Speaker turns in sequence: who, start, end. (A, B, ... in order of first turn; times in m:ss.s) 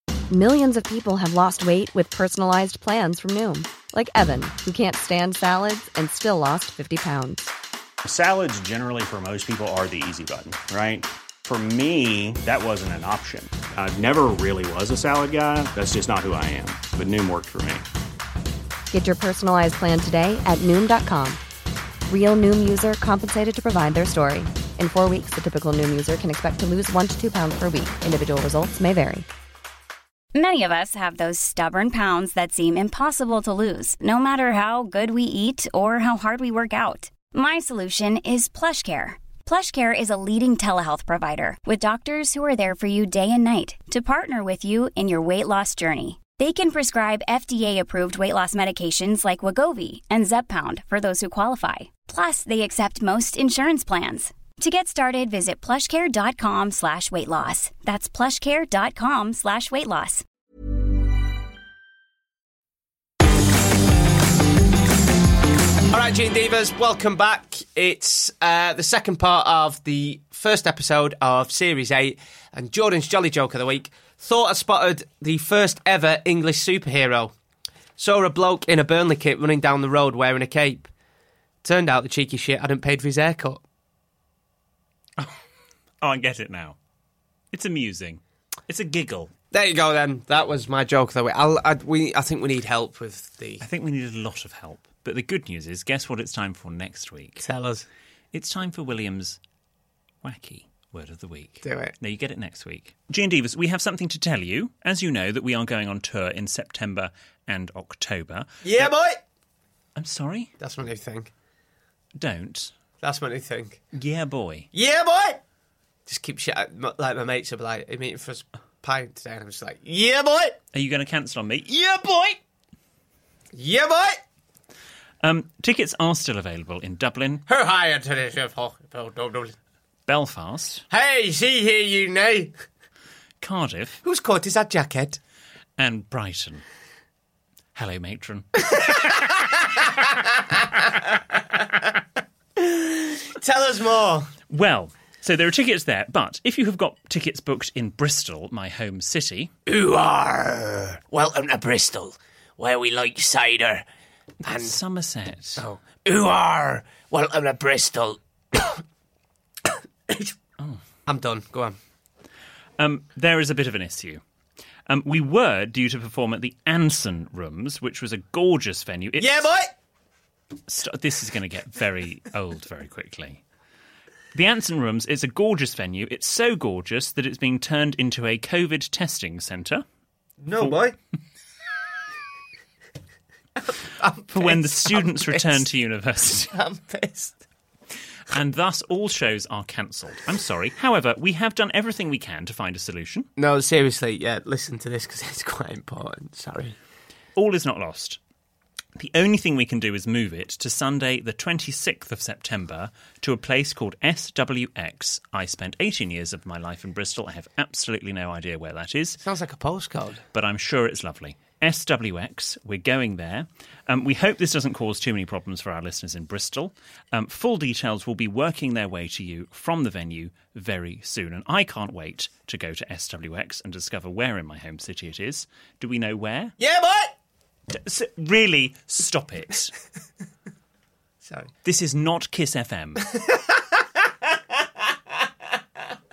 0:00.3-0:07.5 A
0:08.0-0:17.8 B
0:18.9-0:21.4 A
0:22.1-0:29.2 A
0:30.3-1:00.2 C
1:05.9-1:17.3 D
1:18.0-1:20.9 D
1:21.6-1:23.6 D
1:26.0-1:26.8 E
1:27.5-1:29.3 E
1:29.5-1:33.6 D
1:33.6-1:37.4 E
1:37.4-1:37.9 D
1:38.3-1:39.4 E
1:40.2-1:48.9 E
1:41.6-1:41.9 D
1:48.6-1:49.2 D
1:50.0-1:50.5 E
1:50.6-1:51.3 D
1:52.2-1:52.7 E
1:53.0-1:53.8 D
1:53.9-1:54.7 E
1:54.7-1:55.4 D
1:56.1-2:00.6 D
2:00.7-2:02.4 E
2:03.5-2:04.2 D
2:05.2-2:07.4 E
2:07.5-2:09.5 D
2:10.1-2:10.8 E
2:10.9-2:12.5 D
2:13.4-2:14.0 E
2:14.0-2:15.2 D
2:15.8-2:16.6 E
2:17.7-2:18.5 E
2:18.6-2:20.9 D
2:22.6-2:24.3 D
2:24.5-2:29.5 E
2:29.7-2:33.8 D
2:34.4-2:34.8 D
2:34.5-2:35.6 E
2:35.6-2:38.8 D
2:39.6-2:40.3 D
2:41.0-2:41.8 D
2:42.8-2:44.2 E
2:44.9-2:49.5 E
2:49.2-2:49.7 D
2:50.7-2:53.4 E
2:54.3-2:59.8 E
3:00.4-3:00.9 D
3:03.6-3:05.6 D
3:04.3-3:06.5 E
3:06.5-3:07.4 D
3:08.3-3:13.3 E
3:13.4-3:16.8 D
3:17.4-3:18.2 E
3:19.0-3:29.2 E
3:29.2-3:30.2 D
3:30.3-3:46.5 E
3:46.6-3:47.1 D
3:47.7-3:49.7 E
3:51.2-3:51.5 D
3:51.6-3:53.0 E
3:53.1-3:53.9 D